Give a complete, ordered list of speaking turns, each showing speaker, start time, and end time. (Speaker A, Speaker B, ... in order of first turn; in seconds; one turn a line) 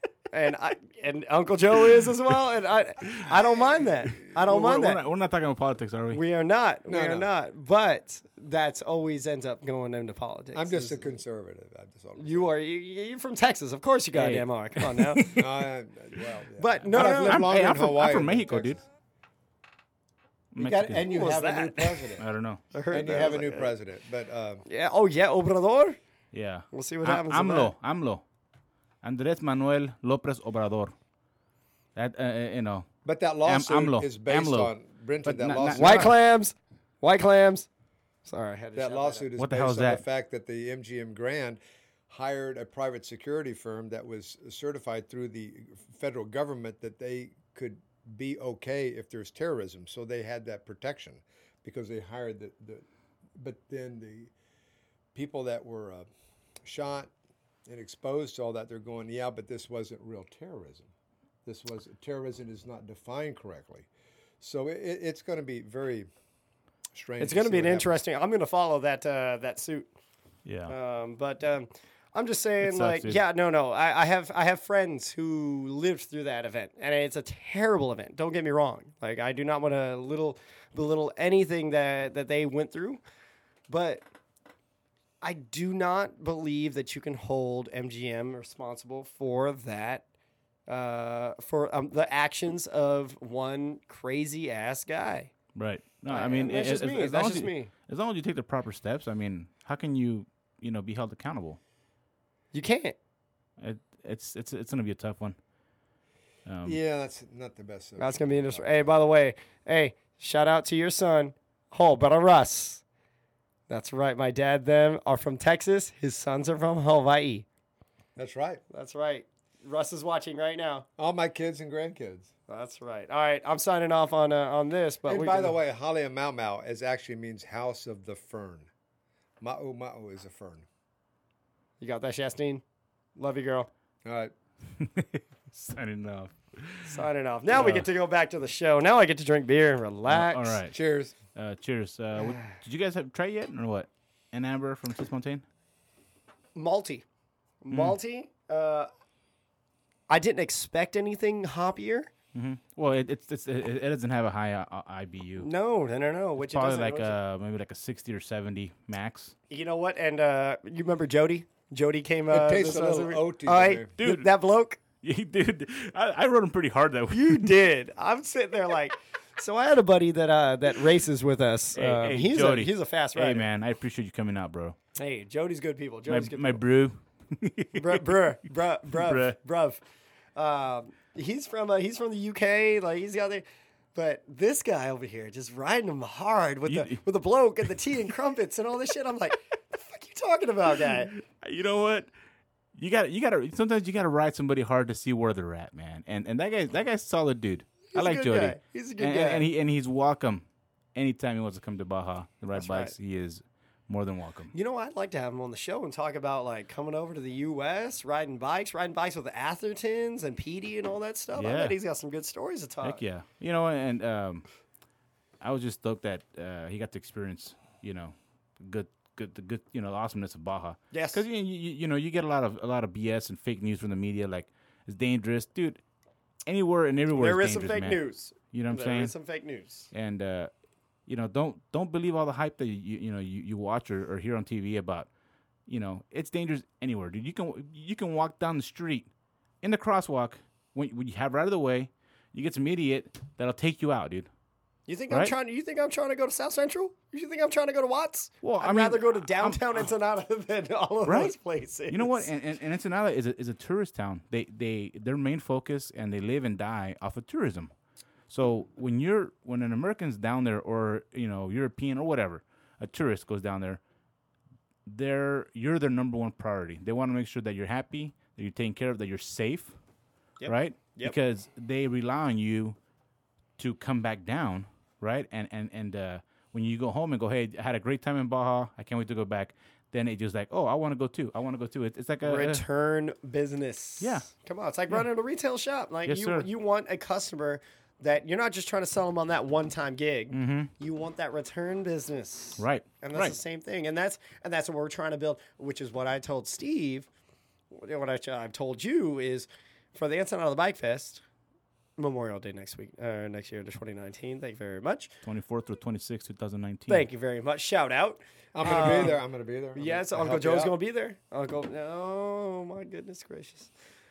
Speaker A: 0.3-5.0
Speaker B: 4.2-6.2
Speaker A: 6.1-11.2
Speaker C: 6.9-7.3
Speaker C: 10.5-12.5
Speaker A: 12.2-15.3
Speaker B: 14.1-15.4
Speaker C: 15.3-18.8
Speaker A: 16.6-17.5
Speaker B: 16.9-18.8
Speaker B: 20.5-21.1
Speaker C: 20.6-22.2
Speaker A: 21.1-22.1
Speaker B: 22.2-22.6
Speaker A: 22.7-23.7
Speaker C: 22.9-24.6
Speaker A: 24.6-26.0
Speaker B: 26.3-28.2
Speaker A: 26.7-27.7
Speaker B: 29.0-30.9
Speaker B: 31.9-32.9
Speaker C: 33.0-36.1
Speaker B: 33.5-34.7
Speaker B: 35.2-36.1
Speaker A: 35.7-37.7
Speaker A: 38.2-39.3
Speaker C: 38.8-52.8
Speaker B: 39.4-40.0
Speaker C: 53.4-54.3
Speaker C: 55.1-56.1
Speaker C: 56.6-57.1
Speaker C: 57.7-60.9
Speaker C: 61.4-63.9
Speaker C: 64.4-66.1
Speaker C: 66.9-68.0
Speaker A: 67.2-69.9
Speaker B: 70.4-70.7
Speaker A: 70.7-83.0
Speaker B: 72.6-73.2
Speaker A: 83.7-84.0
Speaker A: 85.2-90.0
Speaker A: 90.7-95.3
Speaker B: 95.5-101.6
Speaker A: 96.1-97.7
Speaker A: 102.5-103.0
Speaker B: 103.6-105.4
Speaker B: 106.5-106.8
Speaker C: 106.6-108.9
Speaker A: 108.0-112.8
Speaker A: 113.7-117.4
Speaker C: 118.2-118.6
Speaker A: 118.7-120.8
Speaker C: 121.0-122.3
Speaker A: 122.5-125.6
Speaker C: 125.1-128.7
Speaker C: 129.4-130.7
Speaker A: 131.8-132.6
Speaker A: 133.2-133.7
Speaker C: 134.0-134.3
Speaker B: 134.8-137.0
Speaker A: 136.8-140.6
Speaker B: 137.5-137.9
Speaker B: 140.1-140.8
Speaker C: 140.7-141.1
Speaker B: 141.3-145.4
Speaker A: 146.5-147.0
Speaker A: 147.6-148.9
Speaker B: 147.7-148.0
Speaker A: 150.1-152.1
Speaker B: 152.3-155.5
Speaker A: 155.4-157.2
Speaker B: 156.4-159.3
Speaker A: 159.5-164.8
Speaker C: 162.3-163.9
Speaker B: 164.0-164.3
Speaker B: 165.0-167.5
Speaker A: 167.1-173.4
Speaker B: 171.7-174.8
Speaker A: 174.9-176.6
Speaker B: 176.1-178.1
Speaker A: 177.7-179.8
Speaker B: 178.9-179.3
Speaker A: 180.3-191.1
Speaker B: 186.7-187.0
Speaker B: 190.8-192.1
Speaker B: 192.7-204.5
Speaker A: 197.9-199.5
Speaker A: 202.5-202.9
Speaker A: 204.5-213.0
Speaker B: 211.3-211.8
Speaker B: 212.8-214.5
Speaker B: 215.4-225.8
Speaker A: 220.9-221.2
Speaker B: 226.4-229.1
Speaker A: 227.2-229.9
Speaker B: 229.9-230.5
Speaker B: 231.1-235.1
Speaker B: 235.7-239.1
Speaker B: 239.6-244.3
Speaker A: 244.9-252.3
Speaker B: 248.4-249.9
Speaker B: 251.1-251.4
Speaker B: 251.9-257.7
Speaker B: 258.3-263.8
Speaker B: 264.9-269.7
Speaker A: 270.4-271.1
Speaker B: 270.4-272.8
Speaker B: 273.6-282.6
Speaker A: 282.2-297.1
Speaker B: 284.0-284.3
Speaker B: 286.1-286.5
Speaker B: 290.3-290.7
Speaker B: 292.6-293.4
Speaker A: 297.7-301.2
Speaker A: 302.0-305.1
Speaker B: 305.2-307.1
Speaker A: 306.9-309.2
Speaker C: 308.5-310.7
Speaker A: 309.7-313.7